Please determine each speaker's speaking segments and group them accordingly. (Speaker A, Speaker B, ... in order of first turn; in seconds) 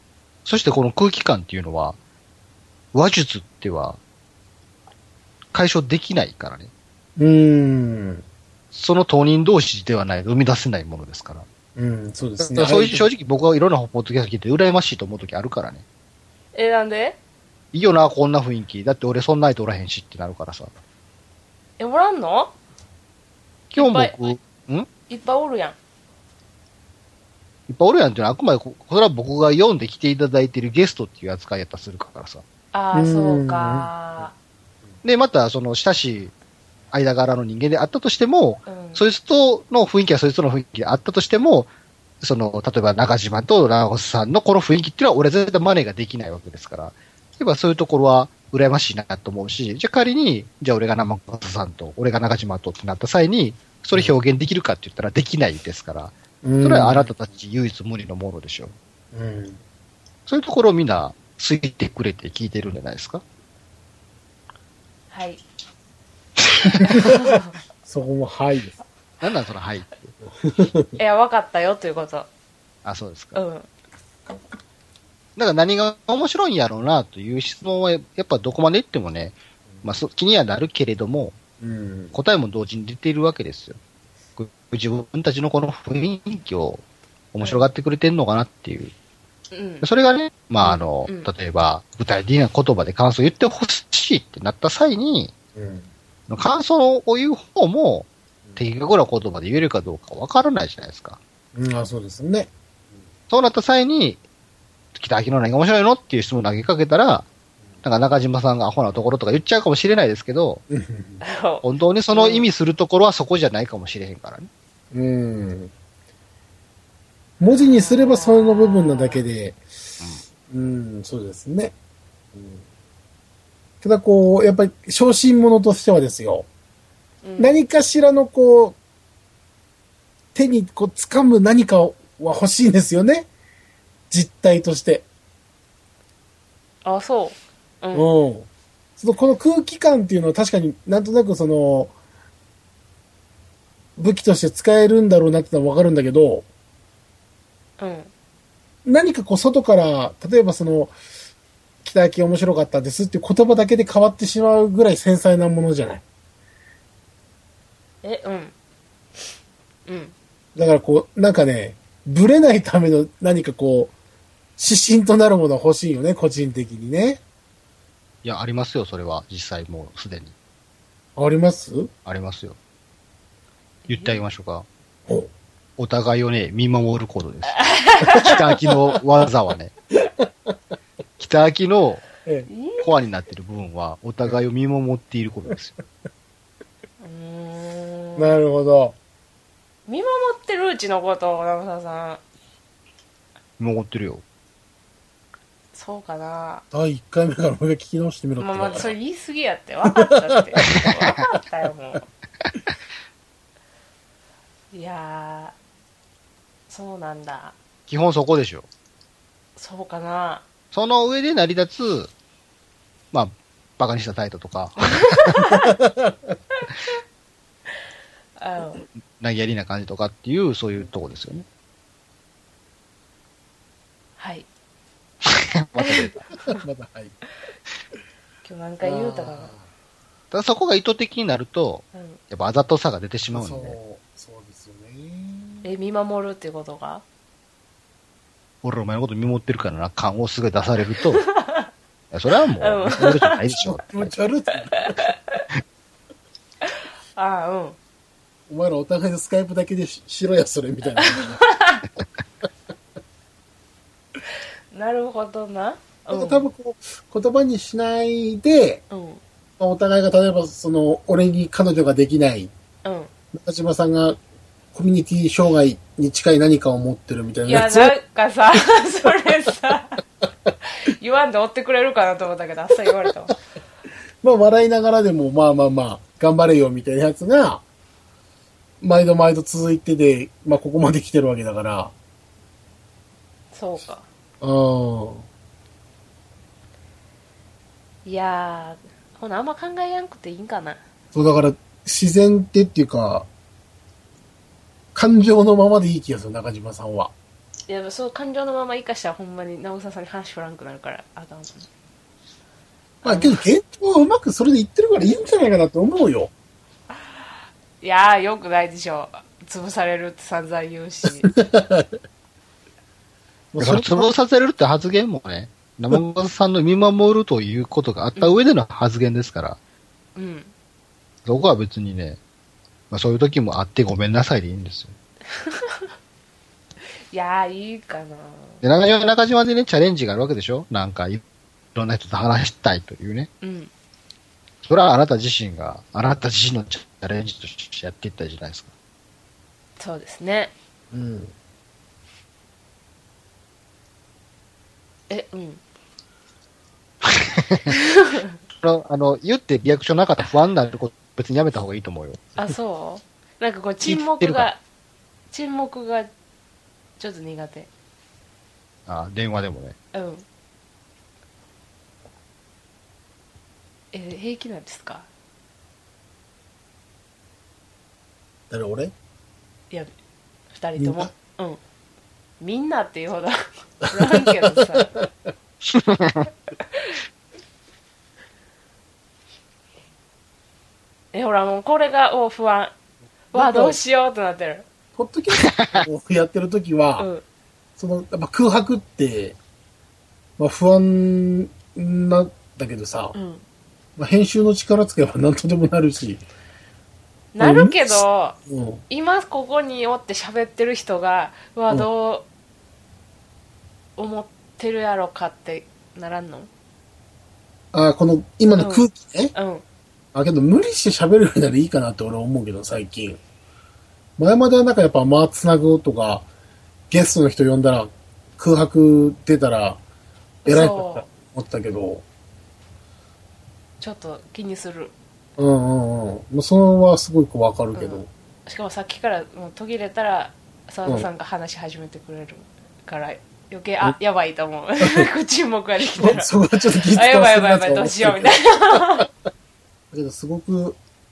Speaker A: 0.5-2.0, 2.9-4.0, 5.5-6.7, 8.7-11.4, 12.4-15.8, 17.7-20.7, 23.7-24.9, 27.7-32.4, 35.0-36.3, 36.9-41.7, 42.2-58.8, 60.3-63.2, 69.2-70.1, 72.8-73.4, 75.4-81.4, 82.1-83.8, 84.4-88.9, 89.8-95.3, 96.3-101.2, 103.3-104.2, 104.9-107.2, 107.8-110.6, 111.6-114.5, 168.2-170.3, 172.1-172.6, 173.9-174.7, 175.8-179.7, 181.2-182.1, 182.8-185.8, 193.6-194.2, 207.9-208.7, 210.7-212.1, 213.1-215.4, 219.2-221.4, 225.2-226.2, 230.3-233.8, 238.6-241.2, 242.1-244.1, 313.6-319.6, 321.2-322.2, 322.9-324.9, 328.6-331.2, 331.8-333.3, 334.6-338.7, 347.0-347.6, 348.6-352.2, 353.8-354.5, 358.9-359.8, 375.7-376.3, 385.4-385.8
Speaker B: 7.2-8.2, 11.8-13.1, 32.9-33.9, 56.4-57.1, 59.1-59.6, 66.9-67.2, 67.8-68.8, 70.3-71.0, 81.6-82.1, 95.5-95.9, 101.5-102.5, 110.7-111.2, 114.9-115.7, 117.4-119.6, 120.5-121.8, 122.3-122.6, 123.8-126.5, 127.4-128.8, 130.3-133.3, 134.1-135.1, 137.9-141.9, 144.0-146.4, 148.8-150.9, 151.8-156.0, 160.6-163.9, 164.6-167.2, 171.2-171.9, 180.1-180.5, 188.2-188.9, 196.7-198.9, 199.9-200.6, 215.8-216.1, 226.5-227.2, 228.8-229.6, 233.3-235.7, 243.6-245.0, 248.5-251.4, 256.1-258.8, 259.6-262.5, 263.3-264.2, 264.7-267.9, 274.2-277.6, 278.8-281.9, 284.4-285.2, 291.1-293.3, 294.9-297.1, 303.0-306.3, 311.3-311.9, 313.5-314.1, 340.9-341.3, 368.5-368.9, 370.8-371.1, 383.3-383.8, 384.9-387.1, 387.8-389.4, 390.4-393.1, 394.0-396.2, 397.4-398.8, 407.7-409.3, 410.1-413.2, 414.2-416.2, 416.9-419.8, 420.4-422.0, 425.4-428.1, 435.9-439.0, 439.9-440.8
Speaker C: 16.5-17.2, 21.8-22.5, 23.8-24.3, 25.1-25.8, 32.7-34.3, 38.7-39.0, 65.1-65.4, 66.9-67.5, 71.0-72.3, 73.3-73.7, 87.4-87.7, 89.5-89.9, 90.6-91.3, 111.2-112.5, 117.5-119.2, 127.2-127.6, 136.8-138.1, 147.8-148.1, 158.0-158.5, 159.9-160.1, 173.9-174.2, 177.5-178.4, 182.5-182.9, 187.0-188.4, 189.9-192.2, 195.7-196.6, 198.4-202.1, 204.7-205.6, 206.7-207.6, 209.6-210.4, 214.8-215.7, 218.4-218.8, 224.2-224.5, 225.8-226.6, 228.4-229.5, 231.9-232.2, 235.6-237.0, 241.1-241.7, 242.6-243.4, 244.8-245.4, 246.7-247.8, 251.0-251.9, 254.7-256.5, 258.9-259.2, 262.8-263.1, 267.4-270.0, 270.8-273.3, 283.5-284.1, 288.0-290.8, 297.7-301.7, 303.0-303.4, 307.8-311.3, 318.2-318.4, 320.1-320.5, 325.3-325.9, 327.1-328.6, 333.4-333.7, 339.8-340.5, 345.1-345.6, 347.7-348.3, 352.4-354.6, 355.3-356.1, 357.0-357.7, 359.9-360.2, 363.9-365.1, 370.5-371.6, 372.4-374.9, 381.1-382.7, 383.3-384.7, 387.0-387.2, 393.1-393.4, 397.3-398.4, 398.9-402.3, 404.0-406.5, 408.6-409.6, 420.4-421.0, 423.8-424.9, 427.8-436.3, 436.9-439.1